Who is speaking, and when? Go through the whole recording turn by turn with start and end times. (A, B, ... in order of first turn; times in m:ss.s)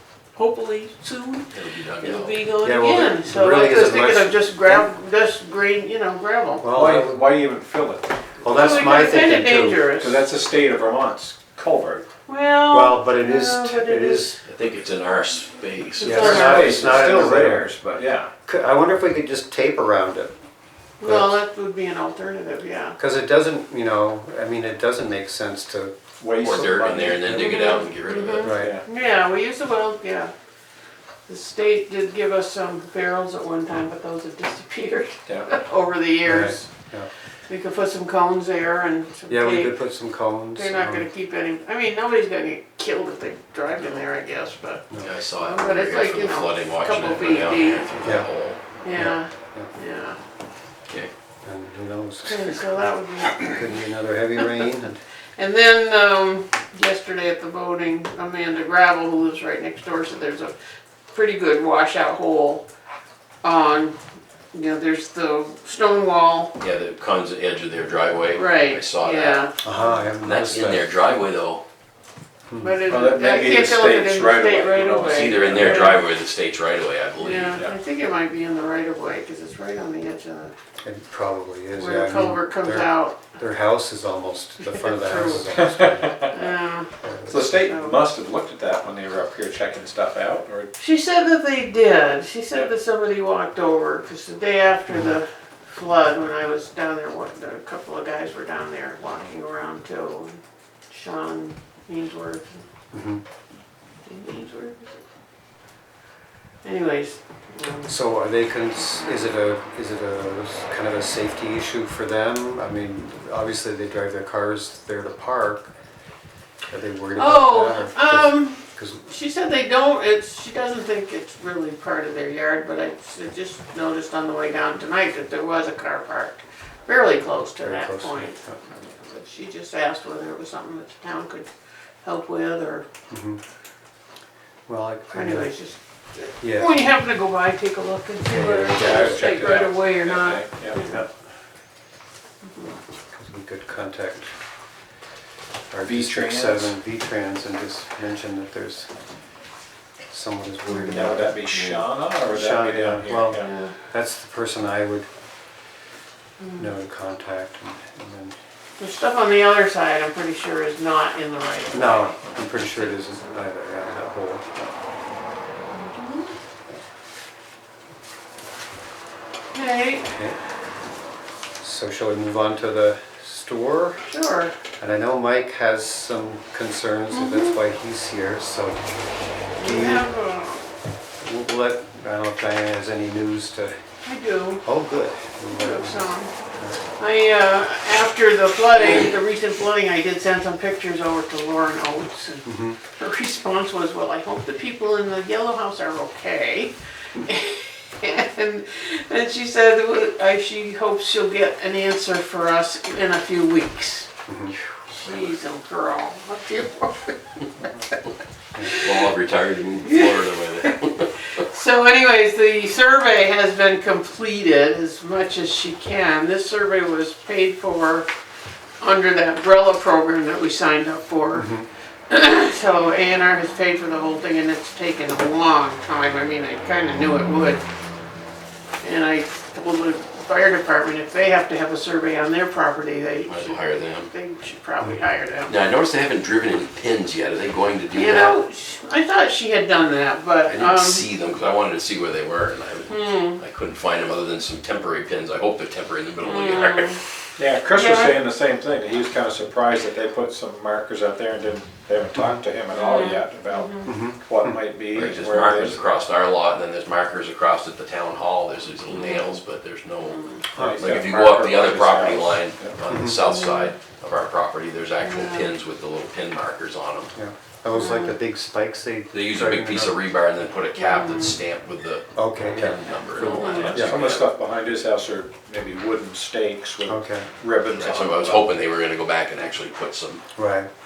0:00.3-0:06.6 A
0:01.5-0:02.4 B
0:02.6-0:04.8 C
0:06.6-0:07.2 C
0:06.7-0:09.0 D
0:08.4-0:09.8 C
0:08.5-0:10.2 A
0:10.0-0:12.0 D
0:12.2-0:14.4 A
0:12.7-0:14.4 C
0:14.4-0:16.7 B
0:16.0-0:17.3 A
0:16.0-0:17.7 C
0:16.0-0:18.3 D
0:18.4-0:20.3 C
0:21.0-0:23.0 A
0:21.0-0:21.4 C
0:23.0-0:25.9 C
0:26.2-0:27.4 D
0:26.4-0:28.5 B
0:27.3-0:30.3 A
0:28.4-0:28.8 C
0:28.4-0:28.8 D
0:31.3-0:36.7 A
0:35.3-0:35.6 D
0:36.2-0:37.1 C
0:37.5-0:39.8 A
0:39.3-0:41.1 C
0:40.6-0:47.9 A
0:44.9-0:45.2 C
0:45.0-0:48.6 B
0:48.8-0:50.2 A
0:48.9-0:49.7 C
0:51.4-0:55.0 C
0:52.2-0:53.9 A
0:55.4-1:00.5 A
1:01.1-1:02.6 A
1:03.4-1:04.0 A
1:04.5-1:06.6 A
1:06.6-1:09.5 B
1:08.3-1:10.0 A
1:09.6-1:10.9 C
1:10.2-1:11.6 B
1:12.5-1:12.8 C
1:12.6-1:16.0 A
1:12.9-1:16.0 D
1:15.0-1:17.6 B
1:17.2-1:20.5 A
1:20.8-1:26.2 C
1:21.7-1:23.2 A
1:24.6-1:25.7 A
1:25.5-1:26.3 D
1:26.3-1:26.9 A
1:27.0-1:27.5 C
1:27.3-1:30.7 D
1:27.5-1:28.0 A
1:30.8-1:42.6 A
1:34.9-1:35.2 C
1:42.9-1:43.2 C
1:44.0-1:45.0 A
1:46.6-1:48.0 A
1:47.8-1:55.7 C
1:48.8-1:49.2 A
1:56.7-1:59.0 C
1:57.2-2:11.5 A
2:07.6-2:08.6 C
2:12.0-2:12.8 A
2:13.1-2:13.4 C
2:14.7-2:15.5 C
2:15.1-2:21.0 A
2:16.4-2:16.7 C
2:18.2-2:19.4 C
2:18.7-2:20.8 D
2:20.8-2:21.1 C
2:22.4-2:22.8 A
2:23.1-2:24.3 C
2:25.7-2:28.9 C
2:25.8-2:26.8 D
2:30.1-2:31.4 C
2:30.7-2:31.8 A
2:30.9-2:33.5 D
2:32.2-2:35.1 C
2:33.4-2:33.7 A
2:36.4-2:36.7 A
2:36.6-2:38.4 C
2:38.8-2:42.9 A
2:41.7-2:44.7 C
2:45.7-2:46.3 A
2:49.5-2:50.1 A
2:50.1-2:50.4 C
2:51.6-2:54.0 C
2:54.1-2:54.5 A
2:54.8-2:58.8 C
2:57.1-2:57.6 A
2:59.6-3:00.7 A
2:59.6-3:00.0 C
3:01.2-3:03.8 C
3:04.0-3:04.6 A
3:04.6-3:06.8 C
3:05.5-3:06.3 A
3:07.0-3:24.1 A
3:12.4-3:12.8 C
3:24.3-3:24.6 C
3:24.8-3:27.2 A
3:28.5-3:28.8 C
3:28.8-3:31.4 B
3:29.9-3:30.8 A
3:31.4-3:38.1 A
3:38.8-3:41.5 A
3:41.3-3:41.7 C
3:42.1-3:47.6 A
3:48.8-3:55.5 A
3:53.2-3:54.1 B
3:55.4-3:58.4 B
3:57.9-4:01.1 A
4:00.5-4:07.0 B
4:02.9-4:03.4 A
4:06.2-4:07.0 A
4:07.4-4:15.8 D
4:07.7-4:08.2 A
4:12.1-4:12.4 C
4:12.7-4:13.9 A
4:13.8-4:14.6 C
4:14.9-4:27.1 B
4:18.9-4:19.4 A
4:20.1-4:20.4 A
4:20.5-4:22.8 D
4:20.6-4:20.9 C
4:22.9-4:23.2 C
4:23.2-4:23.7 A
4:25.0-4:25.5 A
4:27.1-4:30.0 C
4:27.7-4:28.2 A
4:29.1-4:34.3 B
4:30.8-4:31.4 A
4:32.2-4:34.0 C
4:33.2-4:38.5 D
4:33.2-4:33.8 A
4:36.8-4:37.3 C
4:37.7-4:40.2 B
4:40.4-4:40.7 C